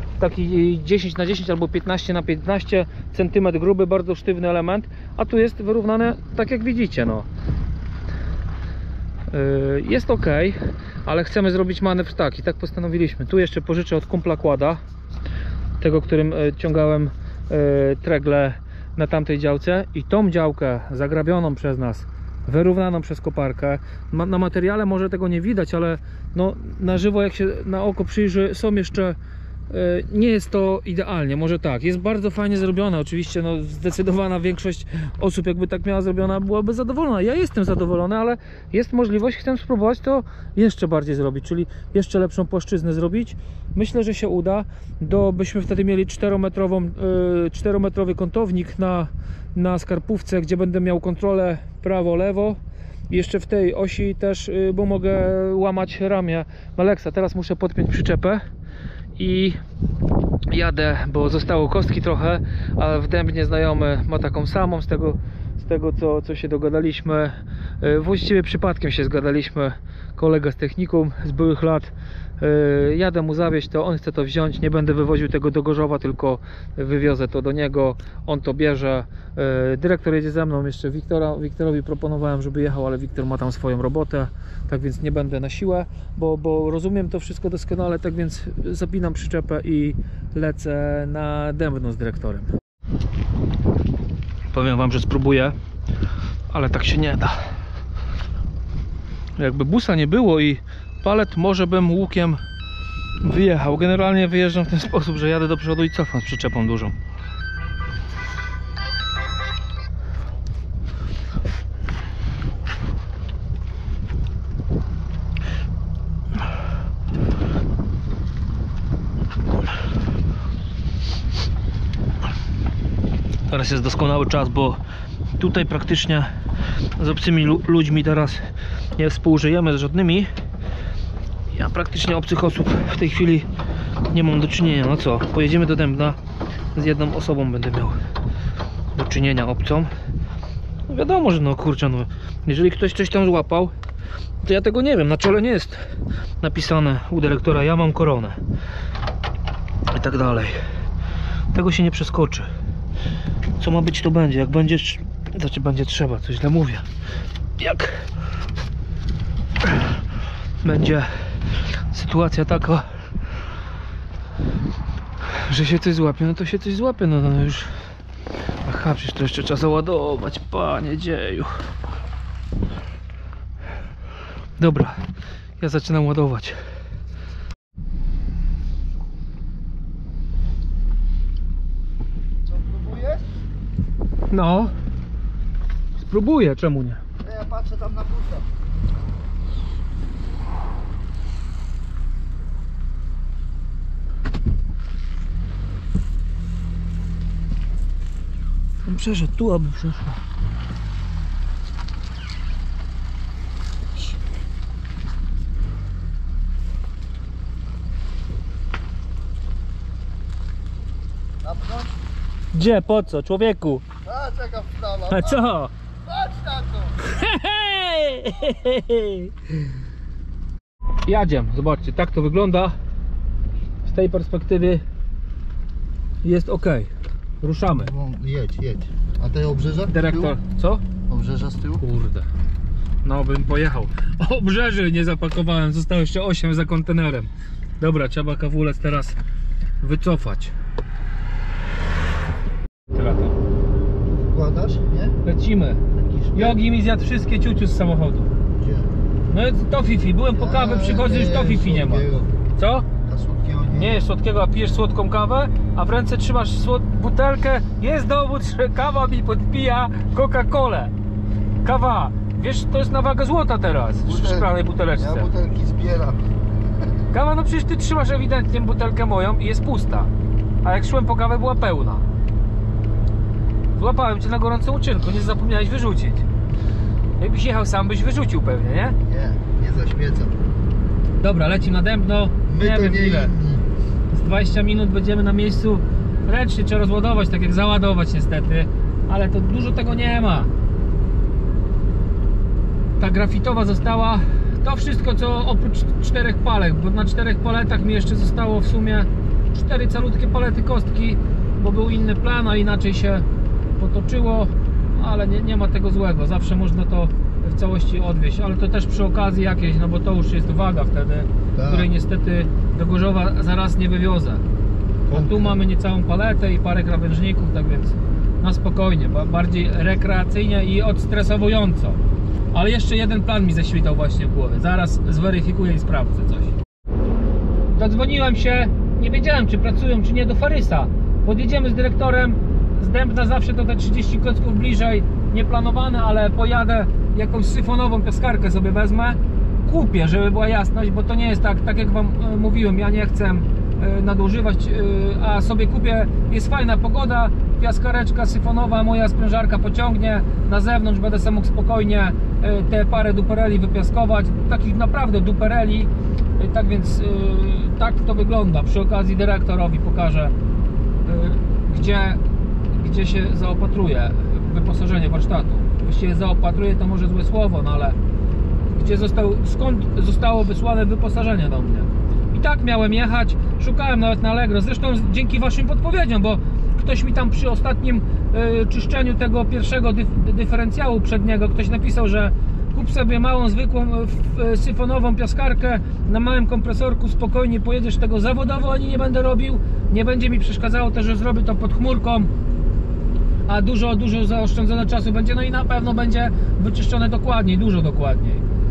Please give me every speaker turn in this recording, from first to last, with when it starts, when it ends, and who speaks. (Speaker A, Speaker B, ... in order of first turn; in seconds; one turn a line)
Speaker A: 0.2-7.3
Speaker A: 9.3-14.8
Speaker A: 15.8-29.2
Speaker A: 29.7-52.6
Speaker A: 53.1-58.4
Speaker A: 59.2-59.6
Speaker A: 60.5-92.5
Speaker A: 94.5-95.6
Speaker A: 96.5-97.5
Speaker A: 99.4-102.4
Speaker A: 103.2-107.0
Speaker A: 123.5-124.8
Speaker A: 125.4-126.3
Speaker A: 127.0-128.4
Speaker A: 129.0-130.3
Speaker A: 131.5-133.5
Speaker A: 134.1-136.2
Speaker A: 136.7-138.0
Speaker A: 138.9-139.9
Speaker A: 140.9-143.7
Speaker A: 144.4-145.8
Speaker A: 146.4-148.4
Speaker A: 149.9-150.6
Speaker A: 151.5-152.5
Speaker A: 153.6-156.8
Speaker A: 157.6-158.0
Speaker A: 160.6-161.4
Speaker A: 161.9-162.9
Speaker A: 165.3-167.7
Speaker A: 168.7-171.5
Speaker A: 174.6-175.0
Speaker A: 175.6-176.6
Speaker B: 182.4-183.4
Speaker A: 184.3-184.7
Speaker A: 186.0-187.0
Speaker B: 187.2-188.5
Speaker A: 198.8-200.2
Speaker B: 211.4-211.9
Speaker A: 212.5-213.8
Speaker B: 214.0-215.5
Speaker A: 215.1-215.7
Speaker B: 216.0-217.0
Speaker A: 217.0-219.3
Speaker A: 221.1-222.8
Speaker A: 223.8-224.8
Speaker A: 226.2-226.9
Speaker A: 227.4-227.9
Speaker B: 227.7-230.4
Speaker A: 229.9-230.8
Speaker B: 231.1-231.8
Speaker A: 231.8-232.3
Speaker A: 233.0-239.2
Speaker A: 239.8-240.5
Speaker A: 242.9-243.3
Speaker B: 244.1-245.2
Speaker A: 245.2-245.8
Speaker B: 245.9-246.6
Speaker A: 246.3-248.3
Speaker B: 248.5-248.9
Speaker A: 249.3-252.1
Speaker B: 250.3-252.4
Speaker A: 252.6-252.9
Speaker B: 253.0-254.1
Speaker A: 253.7-260.9
Speaker A: 261.6-265.3
Speaker B: 264.1-266.9
Speaker A: 267.1-270.1
Speaker A: 270.6-272.1
Speaker A: 273.8-276.3
Speaker A: 277.2-279.0
Speaker B: 279.1-280.4
Speaker A: 281.2-283.4
Speaker B: 282.5-283.6
Speaker A: 284.1-290.5
Speaker A: 293.0-303.3
Speaker A: 303.8-314.4
Speaker B: 311.5-311.9
Speaker B: 315.1-315.6
Speaker A: 315.1-322.0
Speaker A: 322.5-326.6
Speaker A: 327.7-360.3
Speaker A: 361.1-362.2
Speaker A: 362.7-368.0
Speaker A: 368.7-392.3
Speaker A: 393.5-398.4